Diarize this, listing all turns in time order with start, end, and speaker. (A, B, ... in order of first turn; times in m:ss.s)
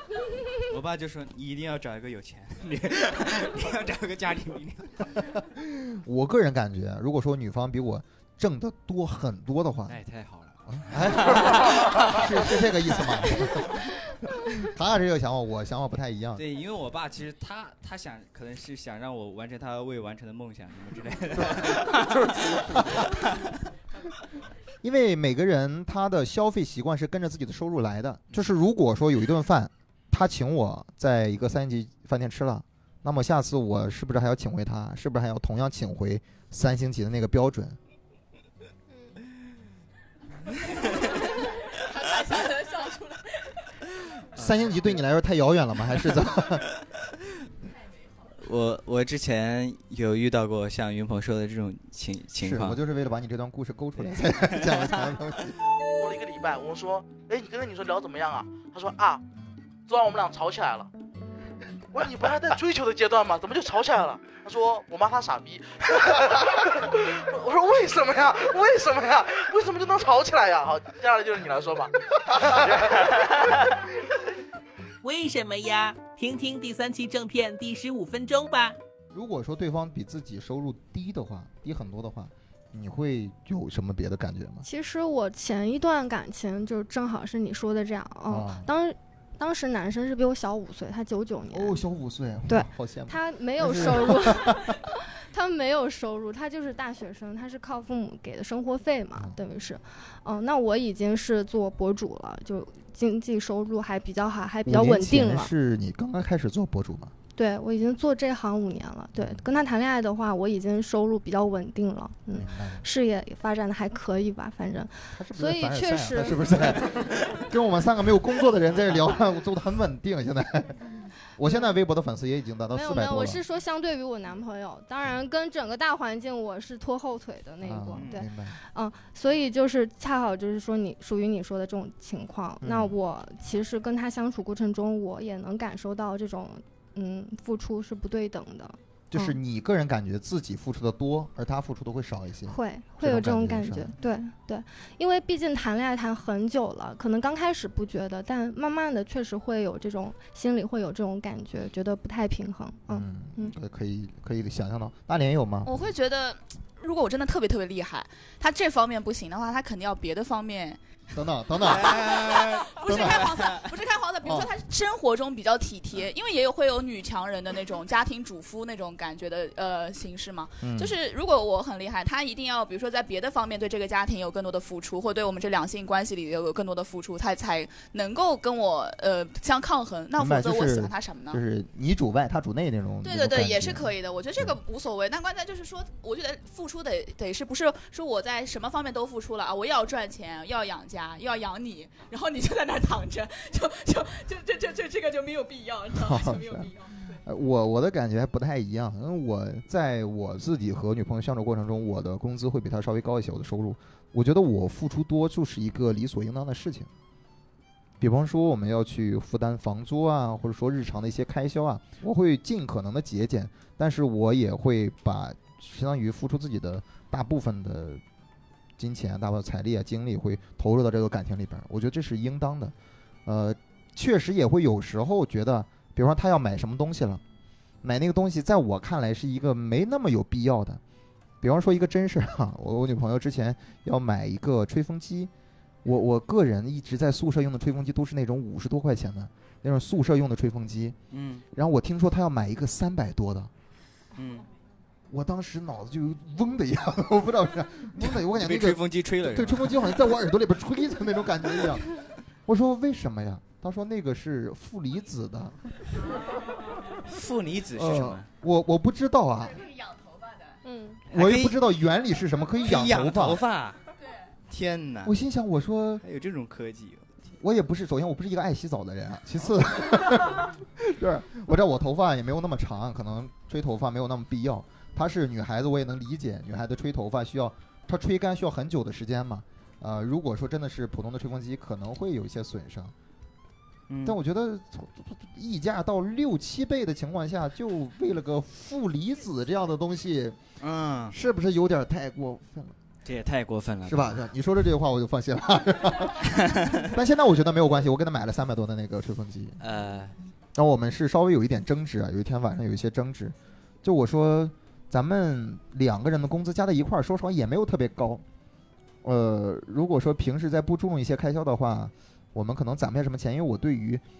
0:00.6-0:05.2 A
0:05.5-0:10.0 B
0:09.9-0:13.4 A
0:10.7-0:16.4 B
0:16.4-0:23.6 A
0:21.4-0:23.1 B
0:24.8-0:37.8 B
0:40.9-0:43.3 C
0:44.4-0:44.8 A
0:44.4-0:46.6 B
0:48.3-0:52.8 A
0:52.4-0:55.5 B
0:54.0-0:54.9 A
0:56.0-0:59.2 D
0:59.9-1:00.9 D
1:01.9-1:13.1 D
1:15.0-1:18.8 E
1:19.1-1:24.6 B
1:24.6-1:31.8 F
1:28.3-1:28.7 B
1:31.5-1:34.7 B
1:32.5-1:45.5 F
1:44.6-1:47.1 B
1:47.3-1:56.5 F
1:49.2-1:49.4 B
1:52.3-1:52.8 B
1:55.1-2:03.4 B
2:02.7-2:19.4 F
2:07.6-2:08.6 B
2:08.0-2:08.2 A
2:12.6-2:13.0 B
2:19.1-2:23.9 B
2:22.5-2:33.5 F
2:32.9-2:35.9 B
2:35.6-2:40.8 C
2:41.1-2:42.2 B
2:41.6-2:43.7 A
2:41.9-3:01.4 C
2:42.8-2:43.4 B
2:44.2-2:44.5 B
2:50.6-2:51.0 B
3:00.2-3:04.6 B
3:03.0-3:17.2 C
3:15.9-3:26.9 B
3:28.0-3:38.0 B
3:38.8-3:42.7 B
3:43.2-3:47.2 B
3:47.8-3:50.8 B
3:51.4-3:55.3 B
3:55.8-4:01.0 B
4:01.1-4:01.4 A
4:01.5-4:03.5 B
4:04.2-4:04.4 A
4:05.1-4:11.8 B
4:08.0-4:09.8 A
4:12.4-4:15.6 B
4:17.0-4:18.2 A
4:17.7-4:19.7 B
4:20.0-4:20.3 C
4:20.6-4:21.0 F
4:21.1-4:21.6 A
4:21.1-4:23.4 B
4:22.6-4:23.8 A
4:24.5-4:25.2 A
4:25.0-4:26.0 B
4:26.0-4:27.2 A
4:27.4-4:42.9 B
4:43.9-4:44.2 A
4:44.0-4:50.4 B
4:50.6-4:51.2 A
4:51.1-4:52.8 B
4:53.0-4:54.2 A
4:53.8-4:59.6 B
4:56.5-4:56.9 A
4:59.6-5:00.2 A
5:00.5-5:08.2 B
5:09.0-5:14.0 B